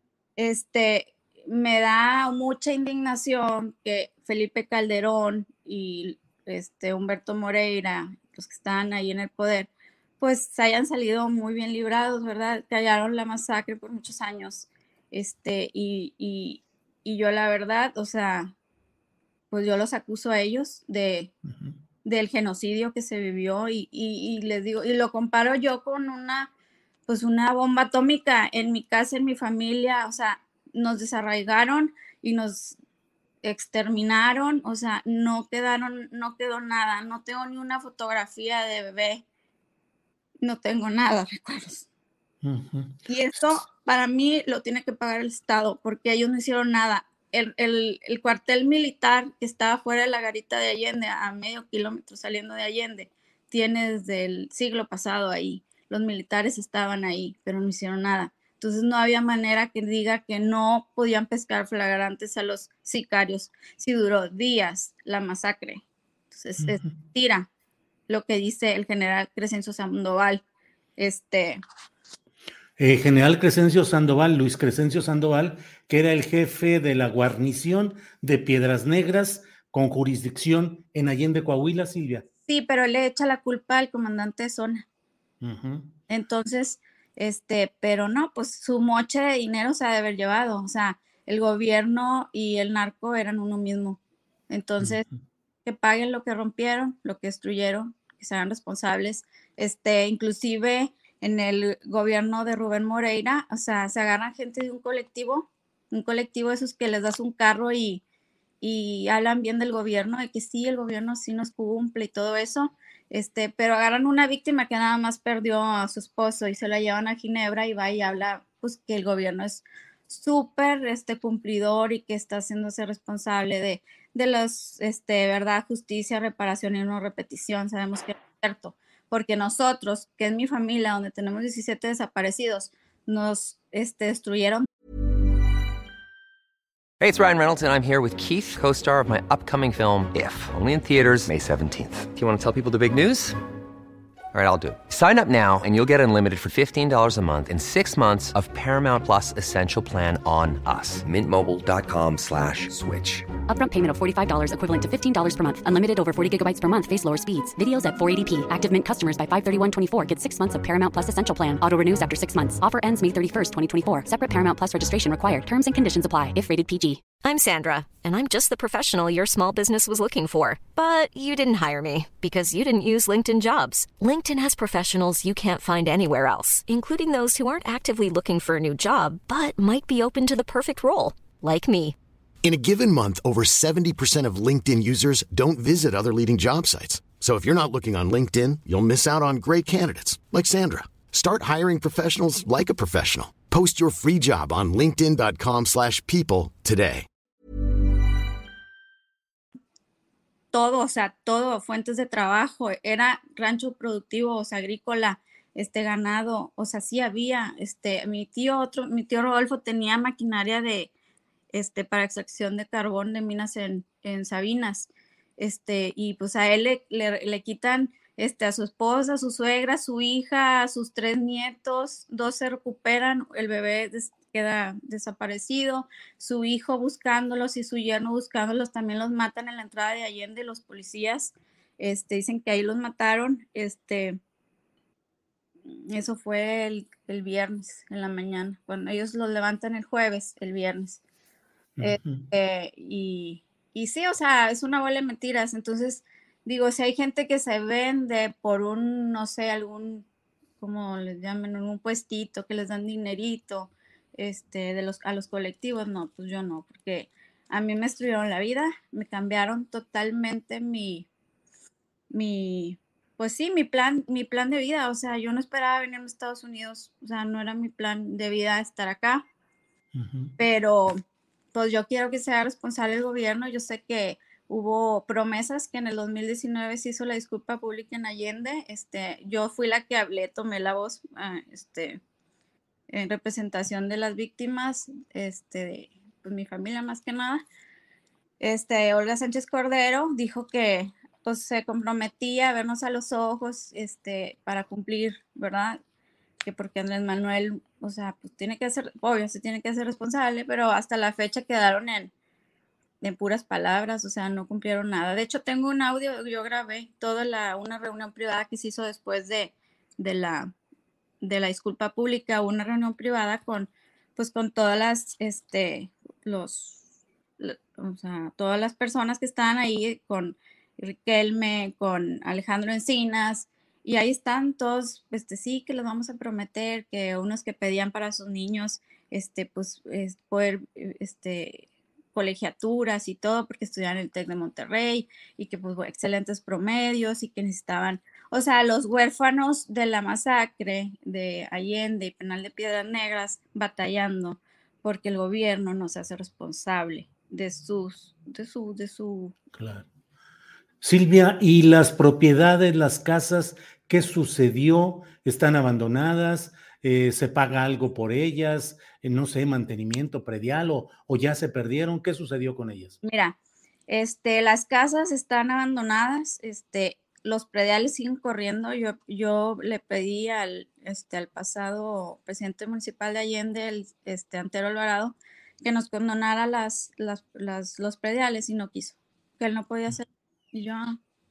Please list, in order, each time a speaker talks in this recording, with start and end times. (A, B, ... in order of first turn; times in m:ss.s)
0:00.4-0:18.5 A
0:19.5-0:21.3 A
0:21.5-0:21.8 B
0:22.0-0:26.5 A
0:27.1-0:32.8 A
0:33.4-0:39.2 A
0:40.4-0:41.9 A
0:42.4-0:43.0 B
0:43.1-1:05.8 A
1:06.3-1:07.5 A
1:06.6-1:06.9 B
1:08.1-1:10.4 A
1:11.0-1:11.6 A
1:12.8-1:22.2 B
1:22.5-1:24.8 A
1:25.4-1:25.9 B
1:26.1-1:34.0 A
1:34.5-1:35.0 A
1:34.8-1:35.2 B
1:35.6-1:48.0 A
1:48.6-2:14.6 A
2:17.0-2:23.4 C
2:24.3-2:33.2 C
2:33.5-2:47.0 D
2:47.2-3:02.0 E
3:02.4-3:17.1 F
3:20.5-3:30.9 A
3:31.5-3:54.2 A
3:55.7-4:01.0 A
4:01.8-4:02.2 B
4:01.8-4:10.0 A
4:10.6-4:21.1 A
4:22.1-4:29.2 A
4:29.9-4:30.3 B
4:30.4-4:31.0 A
4:31.5-4:42.0 A
4:42.9-4:47.4 A
4:48.4-4:55.8 A
4:56.4-5:02.1 A
5:03.0-5:10.5 A
5:11.2-5:16.8 A
5:17.4-5:49.3 A
5:49.5-5:49.9 B
5:50.8-6:03.0 B
6:03.0-6:03.4 A
6:03.9-6:21.0 A